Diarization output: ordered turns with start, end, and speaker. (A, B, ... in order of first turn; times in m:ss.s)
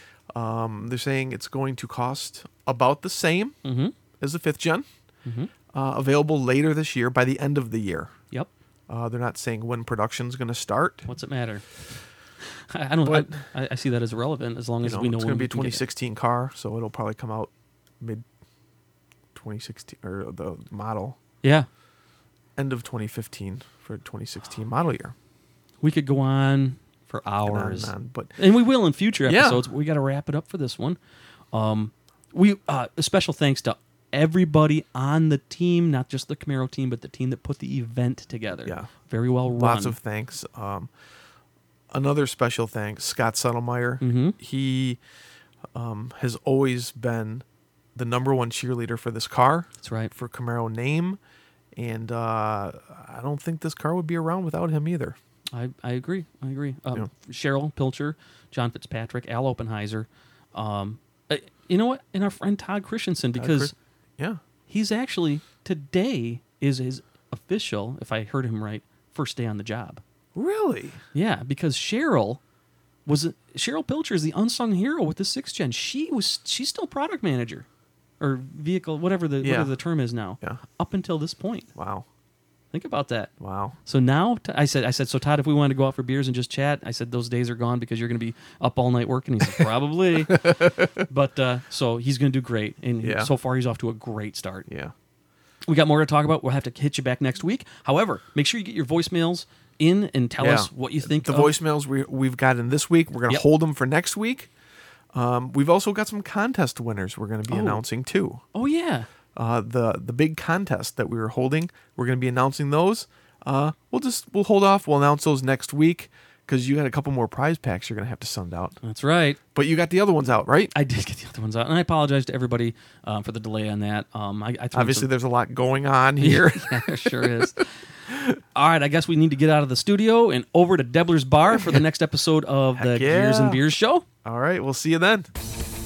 0:00.3-0:03.6 A
0:03.6-0:03.9 B
0:04.2-0:04.9 A
0:05.7-0:08.1 A
0:08.9-0:11.1 A
0:11.1-0:11.7 B
0:12.6-0:15.8 B
0:13.0-0:13.4 A
0:14.8-0:18.2 A
0:19.3-0:21.2 A
0:21.4-0:21.7 B
0:22.6-0:25.2 A
0:25.8-0:31.0 B
0:27.4-0:28.4 A
0:29.3-0:29.6 A
0:31.5-0:40.0 B
0:39.5-0:40.9 A
0:41.9-0:45.0 A
0:44.0-0:44.4 B
0:45.7-0:51.2 A
0:49.8-0:50.1 B
0:51.8-0:55.2 A
0:55.5-1:03.7 B
1:03.4-1:04.4 A
1:04.7-1:10.0 B
1:10.4-1:11.0 A
1:11.1-1:12.4 B
1:13.1-1:17.7 B
1:18.2-1:21.7 B
1:19.4-1:19.7 A
1:21.8-1:22.1 A
1:22.7-1:23.3 B
1:23.4-1:23.8 A
1:23.9-1:34.7 B
1:30.3-1:30.9 A
1:33.0-1:33.3 A
1:34.7-1:34.9 A
1:35.7-1:41.5 B
1:40.4-1:44.5 A
1:45.1-1:48.4 A
1:47.5-1:47.8 B
1:48.5-1:49.1 B
1:49.4-1:58.8 A
1:58.8-1:59.4 B
1:59.5-2:00.7 A
2:00.7-2:05.1 B
2:04.7-2:07.5 A
2:06.2-2:14.0 B
2:12.8-2:13.6 A
2:14.2-2:15.3 A